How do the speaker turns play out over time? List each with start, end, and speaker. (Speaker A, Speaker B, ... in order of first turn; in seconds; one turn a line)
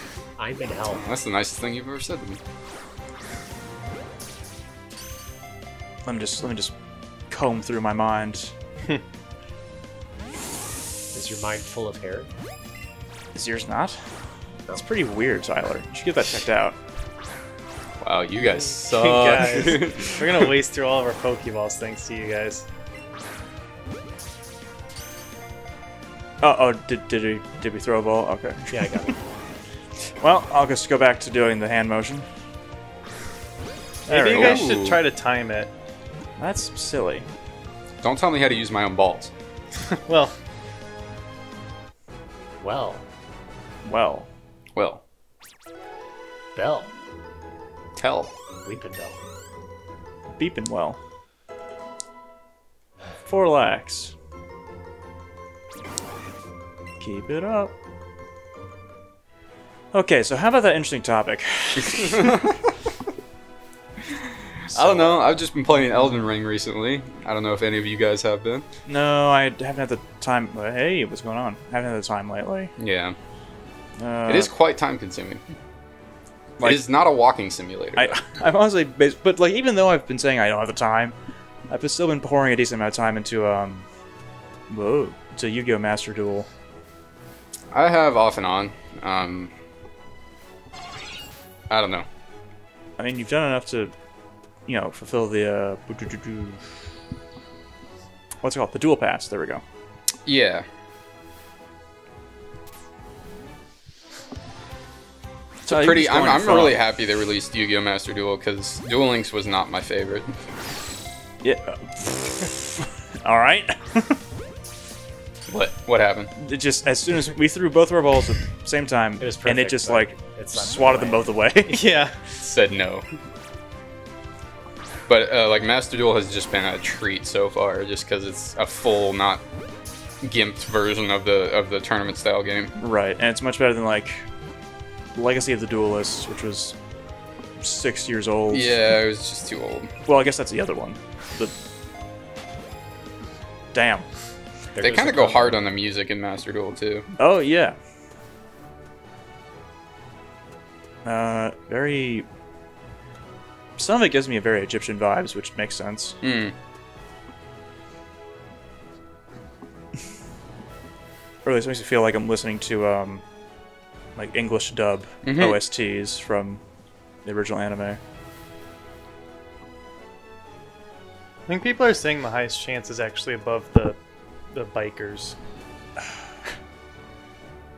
Speaker A: 0.4-1.0
Speaker B: 0.9-2.4
Speaker C: 6.0-6.7
Speaker C: 7.3-8.5
Speaker A: 11.1-12.3
Speaker C: 13.3-14.1
Speaker C: 14.7-16.8
Speaker B: 18.0-20.5
Speaker D: 18.5-22.7
Speaker C: 26.4-29.1
Speaker A: 28.7-29.2
Speaker C: 30.2-32.3
Speaker D: 34.1-35.7
Speaker C: 34.1-34.8
Speaker B: 34.3-35.0
Speaker C: 36.4-37.3
Speaker B: 38.0-39.3
Speaker D: 39.9-40.4
Speaker A: 42.6-43.0
Speaker C: 43.8-44.3
Speaker B: 44.8-45.0
Speaker A: 46.5-46.9
Speaker B: 48.0-48.3
Speaker A: 48.6-49.2
Speaker C: 50.3-51.0
Speaker C: 53.2-54.1
Speaker C: 57.0-57.8
Speaker C: 59.9-62.4
Speaker B: 61.9-62.6
Speaker B: 64.7-68.7
Speaker C: 64.7-65.3
Speaker C: 68.9-72.7
Speaker B: 72.8-73.2
Speaker C: 74.0-74.5
Speaker B: 74.3-75.4
Speaker B: 76.6-78.2
Speaker C: 78.0-81.2
Speaker C: 81.7-83.9
Speaker C: 84.7-86.5
Speaker B: 87.7-89.5
Speaker B: 91.7-92.1
Speaker C: 93.0-93.9
Speaker C: 94.7-96.6
Speaker C: 98.4-99.6
Speaker B: 100.3-100.7
Speaker B: 105.7-110.4
Speaker C: 105.7-106.8
Speaker C: 111.4-114.2
Speaker B: 115.5-116.3
Speaker C: 116.4-121.9
Speaker A: 119.2-121.3
Speaker D: 121.7-122.2
Speaker B: 122.4-123.1
Speaker B: 125.1-129.4
Speaker B: 130.2-132.7
Speaker C: 132.8-134.2
Speaker C: 135.1-136.8
Speaker C: 137.6-138.8
Speaker B: 138.5-139.9
Speaker C: 140.1-141.5
Speaker C: 143.7-144.1
Speaker A: 144.7-145.6
Speaker B: 144.8-147.1
Speaker C: 147.2-147.8
Speaker C: 151.1-152.3
Speaker C: 153.8-156.2
Speaker B: 156.2-156.5
Speaker C: 161.4-163.2
Speaker C: 164.2-166.6
Speaker B: 165.2-165.6
Speaker C: 167.2-168.0
Speaker D: 171.5-174.0
Speaker D: 174.5-175.4